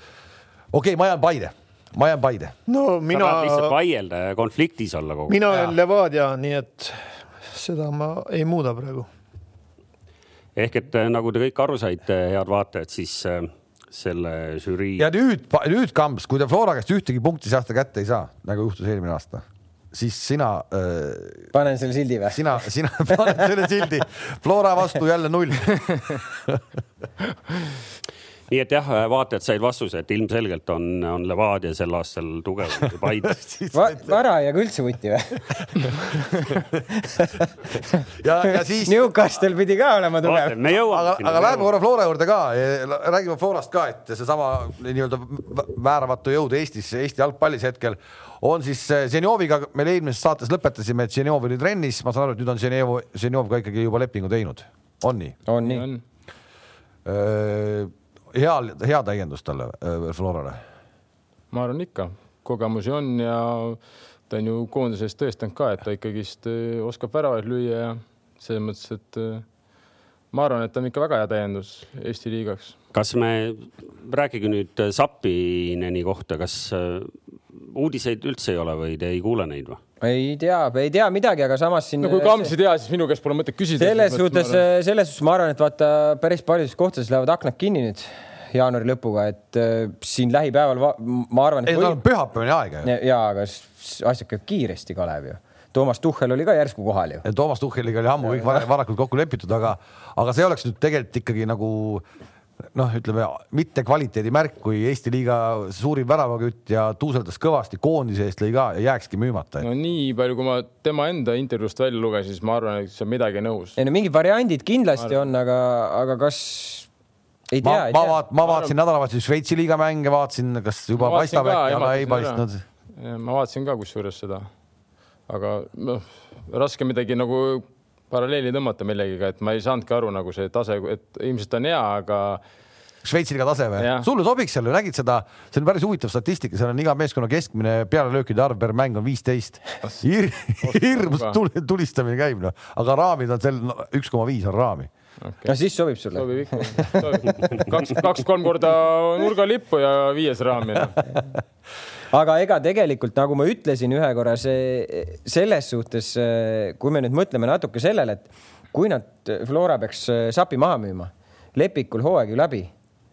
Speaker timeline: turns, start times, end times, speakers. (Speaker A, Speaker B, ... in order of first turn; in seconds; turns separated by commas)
Speaker A: 0.7-2.5, Speaker B: 2.7-3.7, Speaker C: 3.1-5.7, Speaker B: 5.3-9.1, Speaker C: 10.6-15.1, Speaker A: 15.0-21.5, Speaker D: 21.5-22.5, Speaker A: 22.3-26.6, Speaker D: 23.1-23.5, Speaker C: 28.5-33.4, Speaker A: 33.2-34.1, Speaker D: 33.7-35.4, Speaker A: 35.8-36.6, Speaker D: 37.0-37.5, Speaker A: 38.2-39.1, Speaker D: 38.8-40.6, Speaker C: 40.2-41.7, Speaker A: 40.9-55.4, Speaker D: 55.5-55.9, Speaker E: 55.6-56.0, Speaker A: 57.0-60.6, Speaker E: 61.5-69.4, Speaker E: 70.3-72.8, Speaker C: 72.9-79.8, Speaker D: 80.0-82.5, Speaker E: 82.0-84.6, Speaker D: 83.8-92.0, Speaker A: 91.7-92.9, Speaker D: 92.8-97.2, Speaker A: 97.2-102.0, Speaker A: 102.7-109.7, Speaker E: 109.6-113.8, Speaker D: 113.8-116.9, Speaker D: 117.5-118.2, Speaker A: 117.6-122.6, Speaker E: 118.4-118.7, Speaker E: 121.0-122.4, Speaker E: 123.0-124.5, Speaker E: 125.3-132.4, Speaker A: 133.0-144.9, Speaker E: 133.8-134.1, Speaker E: 140.6-141.4, Speaker E: 145.2-145.6, Speaker D: 145.4-147.3, Speaker E: 146.1-151.0, Speaker D: 152.1-162.7